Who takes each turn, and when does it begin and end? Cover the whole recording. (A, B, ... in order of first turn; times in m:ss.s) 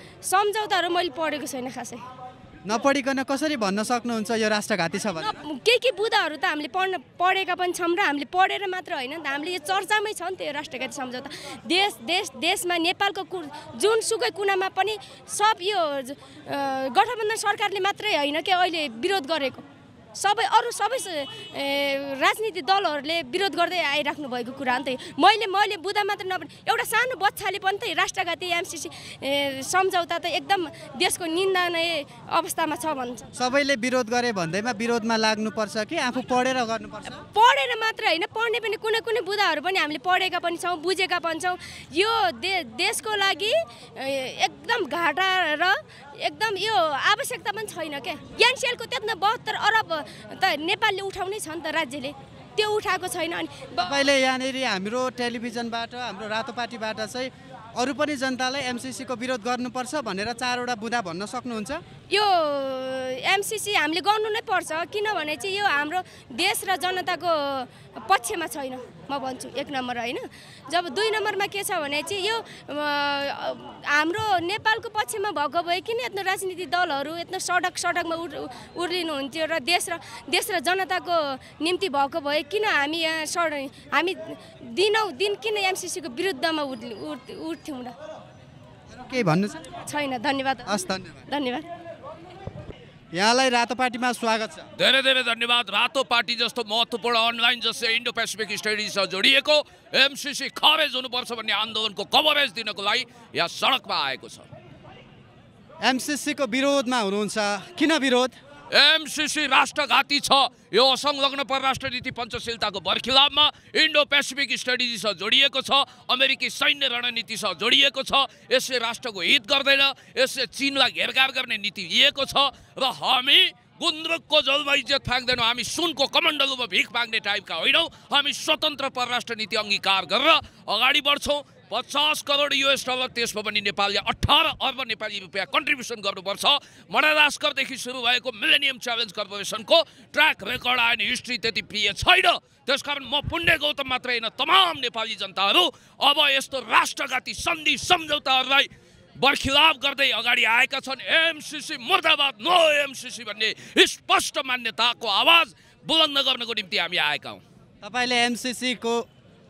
0:00.2-0:02.0 A
0:02.6-0:05.3 B
0:05.2-0:33.3 A
0:33.4-0:37.2 B
0:37.2-0:54.0 A
0:53.8-1:01.8 B
1:02.1-1:28.0 A
1:28.9-1:29.7 B
1:29.9-1:31.7 A
1:30.7-1:31.2 B
1:33.1-1:34.7 B
1:34.8-1:44.5 C
1:45.8-1:48.4 B
1:48.7-2:37.4 C
2:37.8-2:39.1 B